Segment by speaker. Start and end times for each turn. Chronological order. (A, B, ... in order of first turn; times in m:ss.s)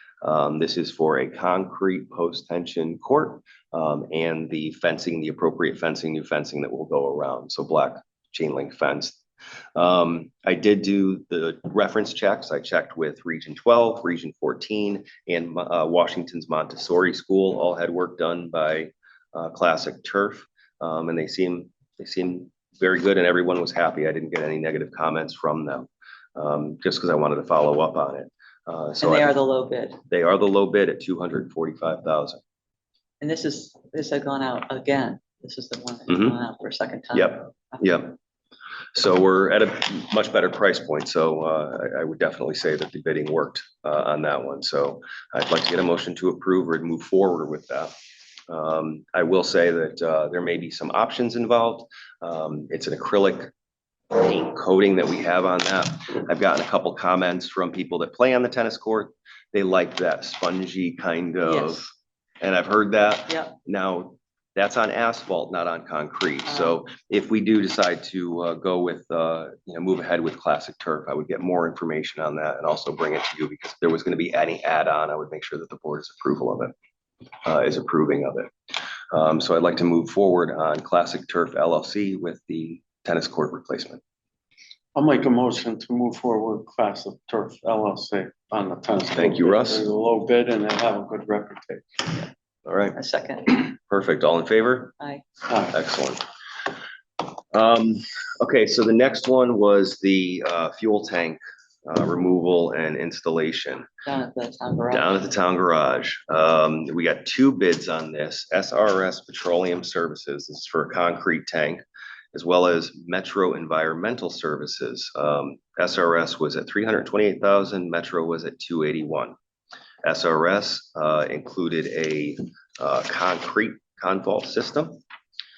0:00.2-0:09.2 A
0:09.8-0:29.4 A
0:29.0-0:30.0 B
0:30.1-0:32.4 A
0:33.2-0:37.8 B
0:36.1-0:36.4 A
0:37.1-0:38.2 A
0:39.0-0:47.9 A
0:48.5-0:53.5 A
0:54.1-1:01.9 A
1:01.4-1:01.9 B
1:02.4-1:16.7 A
1:03.3-1:03.6 B
1:06.5-1:06.8 B
1:17.4-1:18.5 A
1:19.1-1:24.0 A
1:25.0-1:32.0 C
1:29.2-1:29.8 A
1:32.7-1:34.9 A
1:33.0-1:33.6 B
1:35.5-1:35.8 C
1:35.7-1:36.2 A
1:37.5-1:43.9 A
1:44.0-1:45.1 B
1:44.9-1:51.8 A
1:52.3-1:59.4 A
2:00.0-2:05.0 A